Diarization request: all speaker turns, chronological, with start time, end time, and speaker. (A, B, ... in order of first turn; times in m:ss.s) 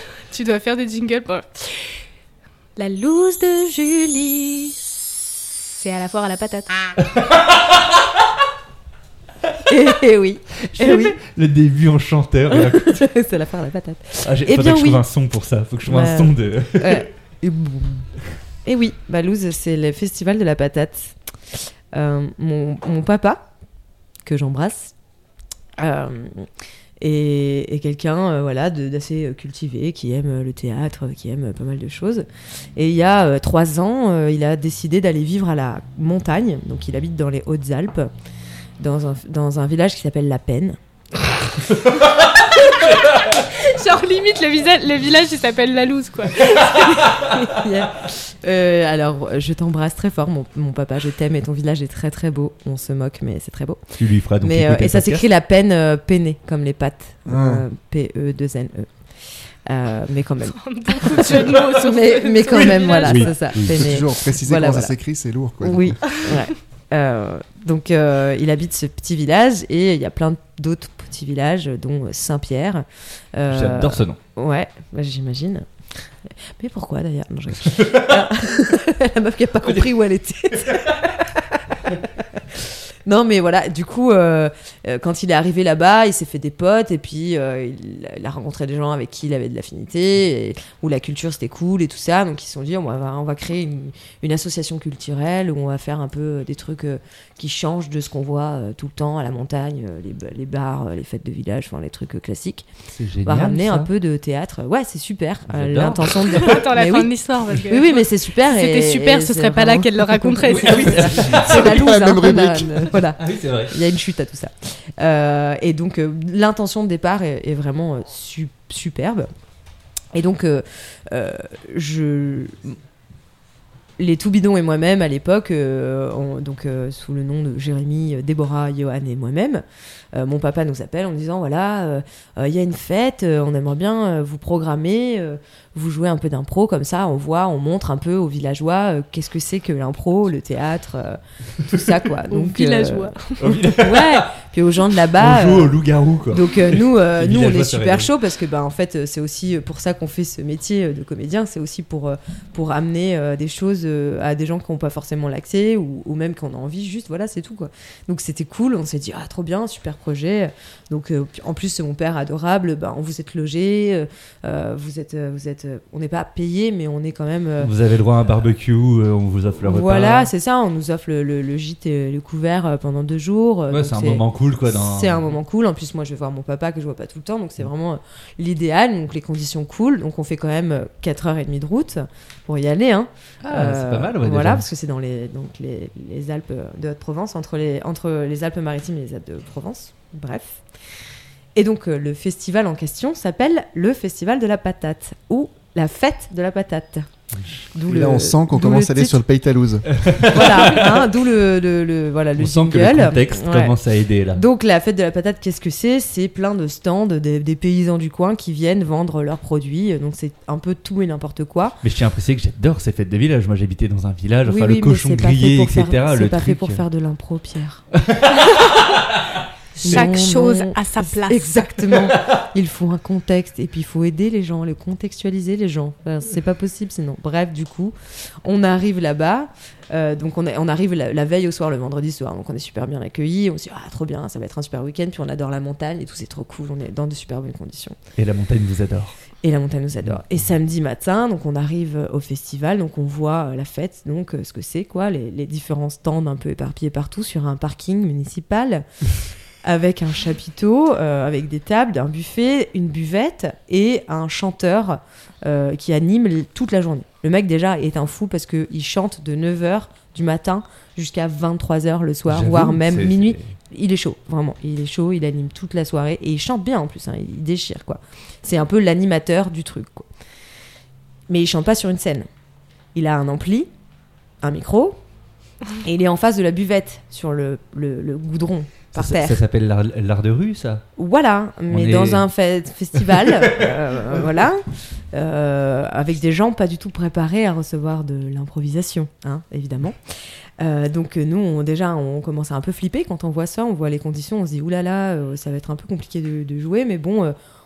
0:00.3-0:02.0 A
0:02.8-0:06.7 A
0:09.7-0:11.2 B
0:10.7-0:13.0 C
0:12.5-0:15.0 B
0:14.2-0:17.1 C
0:15.8-0:18.1 B
0:18.6-0:23.5 B
0:24.2-0:24.9 B
0:25.8-0:26.5 B
0:27.0-0:38.1 B
0:38.8-0:40.8 B
0:43.3-0:47.0 A
0:46.6-0:53.8 B
0:54.0-0:55.3 C
0:54.4-0:58.9 B
0:57.3-0:57.6 D
0:59.6-1:04.9 B
1:00.4-1:03.3 A
1:02.5-1:03.7 C
1:03.6-1:06.0 D
1:05.6-1:15.6 B
1:13.5-1:14.2 C
1:16.2-1:42.7 B
1:42.9-1:43.9 C
1:43.2-1:59.3 B
1:45.5-1:46.6 C
1:46.3-1:51.2 A
1:50.4-1:51.8 C
1:51.2-1:53.0 D
1:53.2-1:53.7 C
2:00.1-2:02.8 B
2:04.0-2:25.8 B
2:22.3-2:23.6 A
2:23.4-2:24.3 C
2:25.2-2:28.1 C
2:26.3-2:47.7 B
2:47.6-2:50.3 C
2:49.6-3:10.6 B
2:53.7-2:55.3 C
3:03.4-3:04.6 C
3:11.5-3:17.1 B
3:17.7-3:19.2 B
3:17.8-3:19.9 D
3:19.9-3:21.1 C
3:20.3-3:23.8 B
3:22.4-3:24.4 C
3:24.3-3:31.8 B
3:31.8-3:36.8 C
3:34.4-3:37.8 B
3:38.4-3:38.8 A
3:39.8-3:58.0 B
3:39.8-3:41.9 A
3:58.2-3:59.2 C
3:59.4-4:08.8 B
4:09.6-4:30.0 B
4:22.3-4:23.5 C
4:31.3-4:32.3 B
4:32.9-4:33.7 B
4:34.4-4:35.0 B
4:35.8-4:39.4 B
4:38.9-4:40.8 C
4:41.0-4:50.0 B
4:41.7-4:42.3 C
4:50.6-4:57.4 B